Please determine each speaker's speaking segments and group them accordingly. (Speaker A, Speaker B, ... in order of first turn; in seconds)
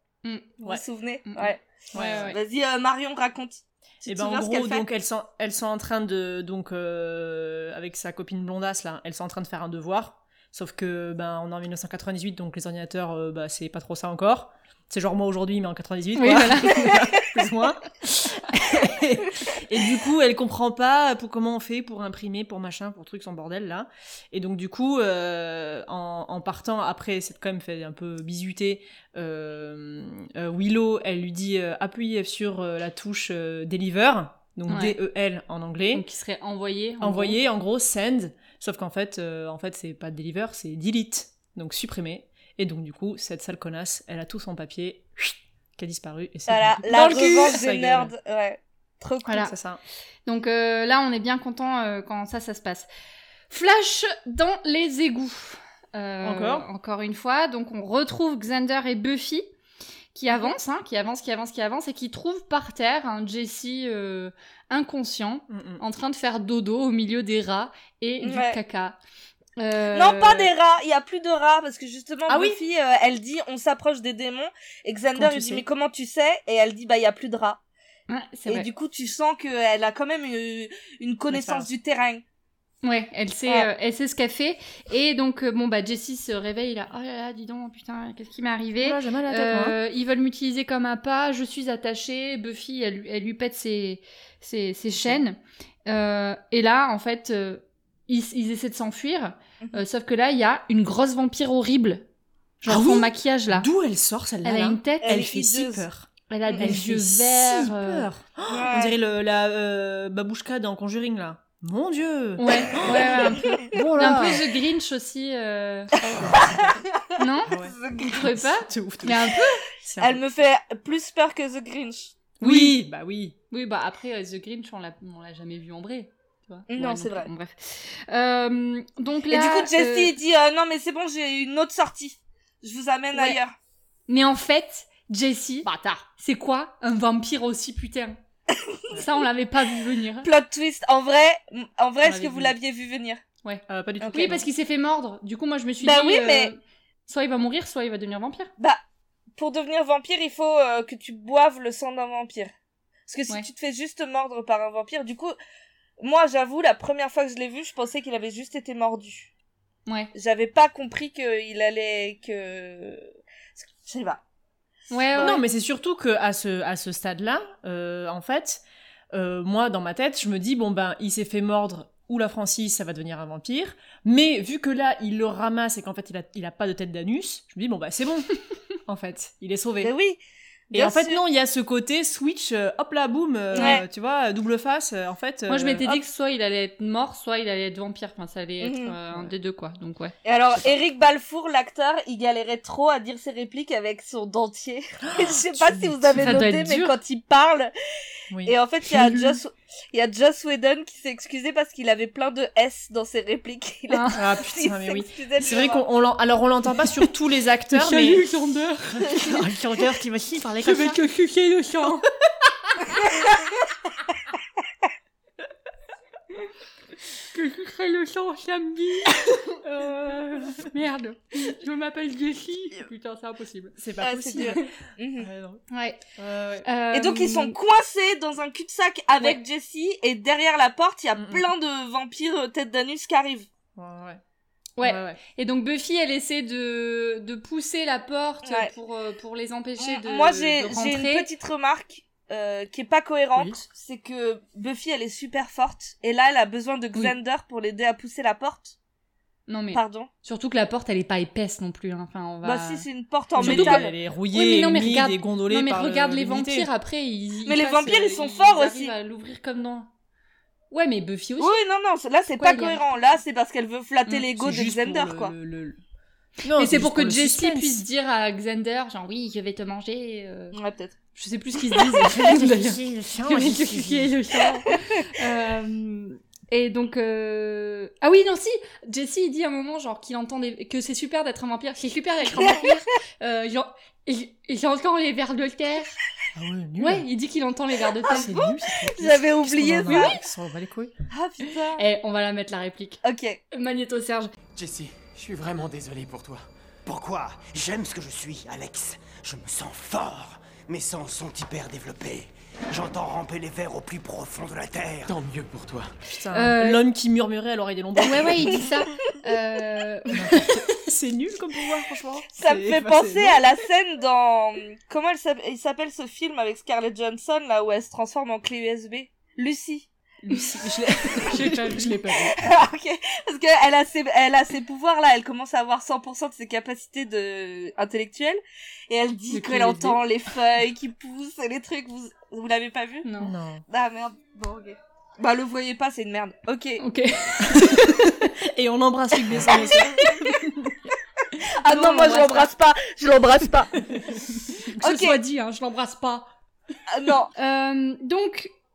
Speaker A: 0.2-0.6, 1.2-2.4, 16.1-16.9, 34.7-35.0, 35.9-37.4, 46.9-47.2, 49.2-49.5, 50.2-52.9, 53.5-59.5, 60.1-69.0, 69.6-70.5, 78.1-78.7, 82.8-102.0, 102.6-103.7, 104.4-105.2, 106.3-108.1, 112.4-115.9, 117.2-119.6, 122.4-122.8, 123.5-130.1, 133.1-133.4, 134.1-138.2, 138.9-140.3, 142.0-142.5, 143.4-148.5, 159.9-160.1, 164.9-165.4, 183.5-183.8, 185.5-190.1, 196.2-196.9, 198.9-199.3, 203.9-204.2, 207.7-209.4, 210.6-212.1, 217.3-223.8, 224.4-224.6, 225.7-226.0, 226.6-227.6, 234.8-241.2, 249.5-252.8, 253.4-259.9, 260.7-261.5, 262.4-262.8, 266.5-270.6, 271.1-286.0, 286.8-288.3, 289.9-290.1, 291.8-293.0, 293.5-294.3, 306.3-306.8, 308.0-310.6, 321.3-321.9, 329.3-330.0, 333.0-333.3, 336.8-338.3, 339.5-340.3, 341.6-342.5, 344.7-346.3, 347.3-348.5
Speaker B: 0.6-4.8, 46.5-49.5, 68.2-68.6, 69.9-77.6, 78.5-82.2, 105.0-105.8, 108.5-109.0, 116.2-118.2, 120.0-122.2, 126.7-127.3, 129.3-133.5, 138.5-138.8, 140.2-143.2, 144.0-144.4, 145.8-146.5, 149.4-152.5, 153.1-155.3, 156.0-159.3, 160.1-164.2, 179.8-180.2, 180.7-181.2, 183.5-183.8, 188.6-188.9, 190.2-197.7, 198.4-205.8, 224.0-225.3, 226.9-233.5, 238.4-238.7, 239.8-248.8, 249.7-250.1, 252.4-253.9, 257.4-258.9, 261.4-265.3, 270.5-270.9, 282.4-282.6, 288.0-290.2, 291.1-291.8, 293.0-293.4, 312.4-319.9, 322.3-333.1, 333.7-336.8, 341.6-343.7, 344.8-345.2, 346.9-347.3
Speaker C: 1.9-2.3, 4.0-36.0, 37.0-48.1, 49.3-49.8, 56.2-56.7, 65.5-65.8, 72.3-72.6, 75.1-75.6, 81.3-81.7, 88.8-89.8, 102.7-114.5, 116.0-116.8, 117.5-120.2, 122.4-123.3, 143.7-144.4, 165.2-178.3, 178.8-179.9, 180.7-186.0, 195.0-196.4, 198.3-198.6, 204.1-208.2, 208.9-211.0, 223.8-224.7, 225.2-225.6, 226.2-226.7, 231.2-231.5, 233.7-234.2, 234.8-235.2, 253.4-256.7, 264.3-265.8, 266.4-267.8, 272.1-274.2, 286.3-287.1, 288.1-290.9, 306.1-308.6, 310.1-313.4, 320.2-322.4, 333.2-333.6, 337.4-340.7
Speaker D: 294.6-296.4, 305.1-305.9
Speaker E: 296.9-305.2